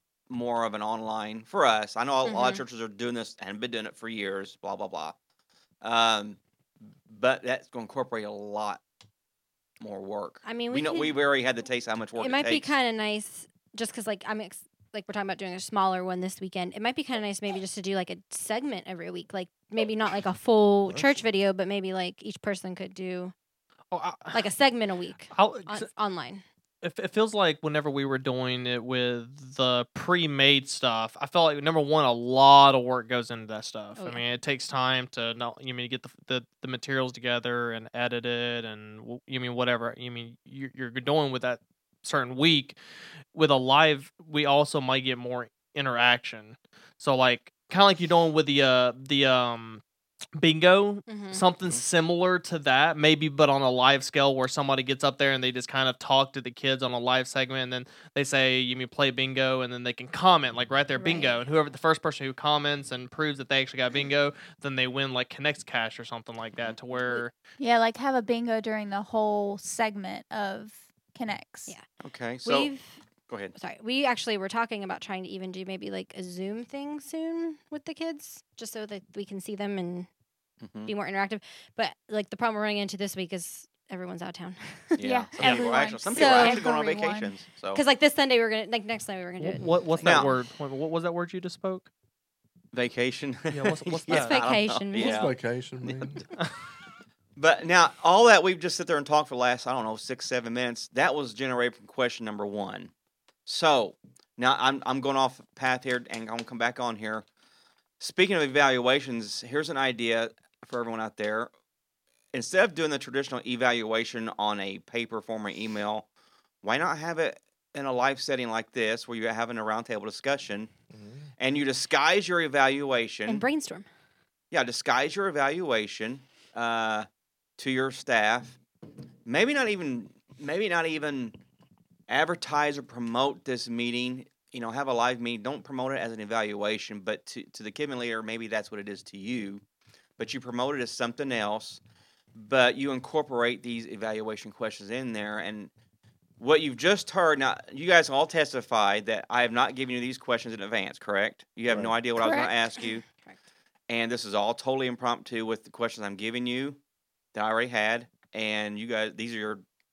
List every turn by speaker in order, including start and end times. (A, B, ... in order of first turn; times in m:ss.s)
0:00.3-0:05.2 A
0:02.2-0:02.6 B
0:05.8-0:06.4 A
0:07.1-0:08.8 A
0:09.8-0:12.8 A
0:10.4-0:11.2 B
0:12.2-0:23.3 B
0:20.9-0:21.2 C
0:23.9-0:24.4 D
0:24.3-0:26.4 B
0:25.3-0:25.9 D
0:26.8-0:42.8 D
0:34.0-0:34.2 B
0:43.3-0:49.8 D
0:50.4-1:07.3 D
0:51.1-0:51.4 B
1:01.0-1:01.4 B
1:07.6-1:11.7 E
1:12.0-1:12.7 A
1:12.4-1:13.0 B
1:13.3-1:13.5 A
1:13.6-1:20.1 B
1:20.6-1:20.9 A
1:20.9-1:25.0 B
1:25.0-1:27.8 A
1:25.0-1:27.4 E
1:26.1-1:26.6 B
1:27.7-1:30.4 B
1:29.4-1:31.9 D
1:30.0-1:30.3 A
1:32.7-1:36.3 A
1:33.5-1:34.4 D
1:34.1-1:35.3 B
1:34.9-1:36.2 C
1:37.4-1:42.9 A
1:43.5-1:47.2 A
1:48.0-1:51.5 A
1:52.3-1:56.1 A
1:56.6-2:00.7 A
2:00.9-2:01.3 C
2:01.4-2:03.4 A
2:03.3-2:03.9 B
2:04.5-2:07.1 A
2:07.6-2:08.6 A
2:09.3-2:11.4 A
2:12.1-2:19.6 A
2:20.2-2:21.8 A
2:22.4-2:25.7 A
2:26.4-2:33.0 A
2:31.7-2:31.9 C
2:32.2-2:32.5 E
2:32.3-2:33.4 B
2:33.9-2:36.8 A
2:37.3-2:39.6 A